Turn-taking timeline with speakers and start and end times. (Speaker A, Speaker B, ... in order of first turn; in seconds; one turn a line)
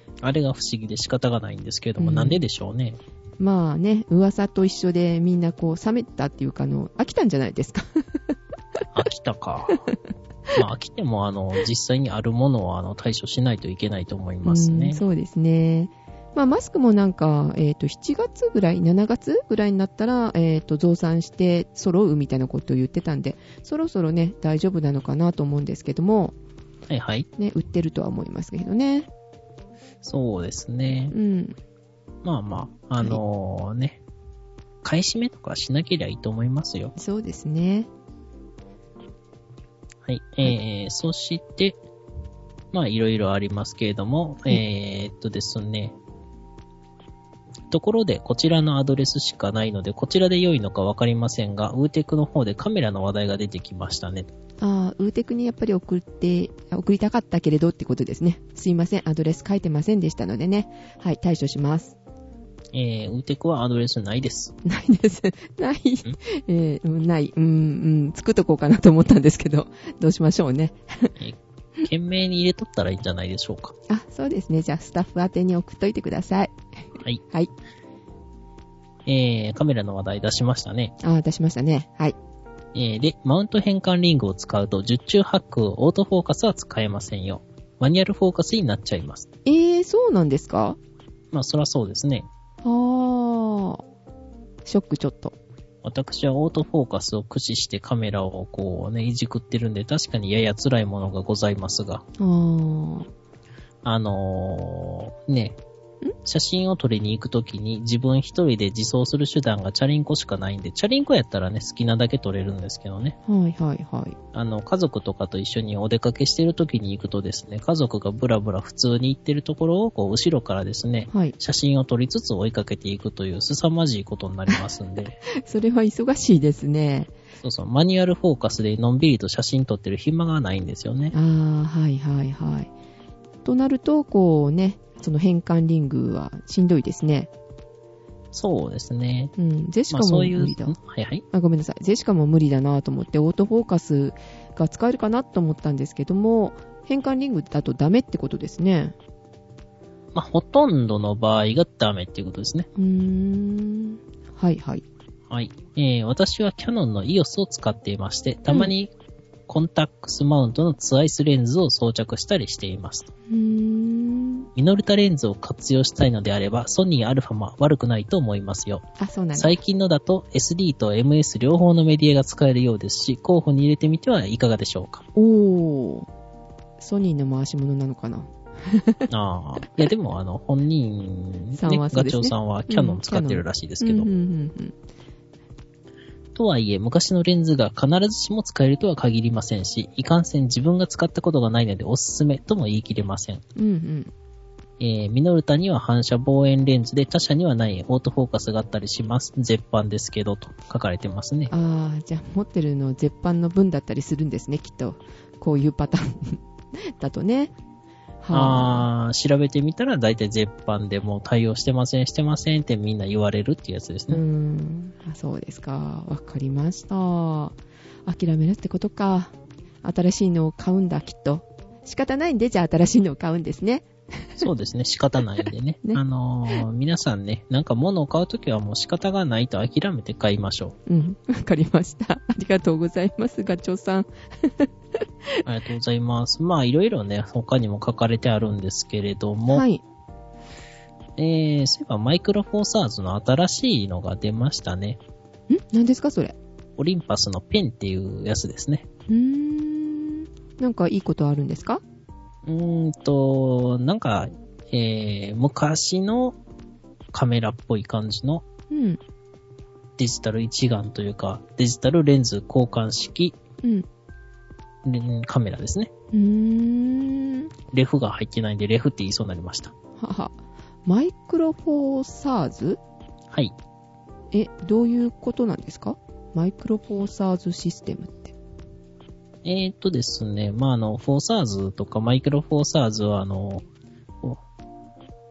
Speaker A: 0.2-3.0
Speaker B: 2.0-2.4
Speaker B: 3.4-8.3
Speaker A: 8.9-9.8
Speaker A: 10.6-15.0
Speaker B: 14.4-26.3
Speaker A: 26.9-27.3
Speaker B: 27.4-29.1
Speaker A: 30.0-31.1
Speaker B: 31.1-31.6
Speaker A: 32.2-34.0
Speaker A: 34.8-36.9
Speaker B: 37.0-37.9
Speaker A: 40.0-41.8
Speaker A: 42.7-46.0
Speaker A: 47.7-54.3
Speaker B: 54.6-62.0
Speaker A: 62.7-64.5
Speaker B: 64.6-71.2
Speaker A: 71.2-73.7
Speaker B: 73.9-76.5
Speaker A: 79.1-80.9
Speaker B: 81.0-82.2
Speaker A: 82.7-89.3
Speaker B: 89.5-90.8
Speaker A: 91.3-92.3
Speaker B: 92.6-93.8
Speaker B: 94.7-95.3
Speaker A: 95.8-102.0
Speaker B: 102.2-103.1
Speaker A: 103.8-105.6
Speaker A: 106.2-113.2
Speaker B: 113.3-114.2
Speaker A: 114.3-125.2
Speaker B: 125.3-127.1
Speaker A: 127.4-131.1
Speaker B: 131.1-132.7
Speaker B: 133.4-137.3
Speaker A: 138.3-139.3
Speaker B: 139.4-140.8
Speaker A: 139.9-141.2
Speaker B: 141.3-148.9
Speaker A: 150.1-152.7
Speaker B: 152.8-154.8
Speaker A: 155.3-158.9
Speaker A: 159.5-163.1
Speaker B: 163.3-164.5
Speaker A: 164.6-168.8
Speaker B: 169.0-169.6
Speaker A: 169.3-175.0
Speaker B: 175.2-176.1
Speaker B: 176.8-179.1
Speaker A: 179.1-184.1
Speaker B: 181.6-184.8
Speaker A: 186.3-193.4
Speaker B: 193.6-194.1
Speaker A: 194.8-201.5
Speaker B: 201.5-206.4
Speaker B: 207.0-207.5
Speaker B: 208.2-208.9
Speaker A: 208.3-214.2
Speaker B: 214.1-224.4
Speaker A: 224.4-230.8
Speaker B: 230.9-234.7
Speaker A: 235.4-239.7
Speaker B: 239.5-239.8
Speaker A: 241.2-245.0
Speaker B: 245.5-246.3
Speaker A: 246.8-248.9
Speaker B: 249.1-251.8
Speaker A: 252.4-256.4
Speaker A: 257.1-258.4
Speaker B: 258.7-259.0
Speaker A: 260.0-263.4
Speaker A: 264.9-265.9
Speaker B: 266.1-267.5
Speaker A: 267.7-269.7
Speaker B: 270.0-270.3
Speaker B: 270.9-272.8
Speaker B: 274.3-278.4
Speaker A: 279.4-283.6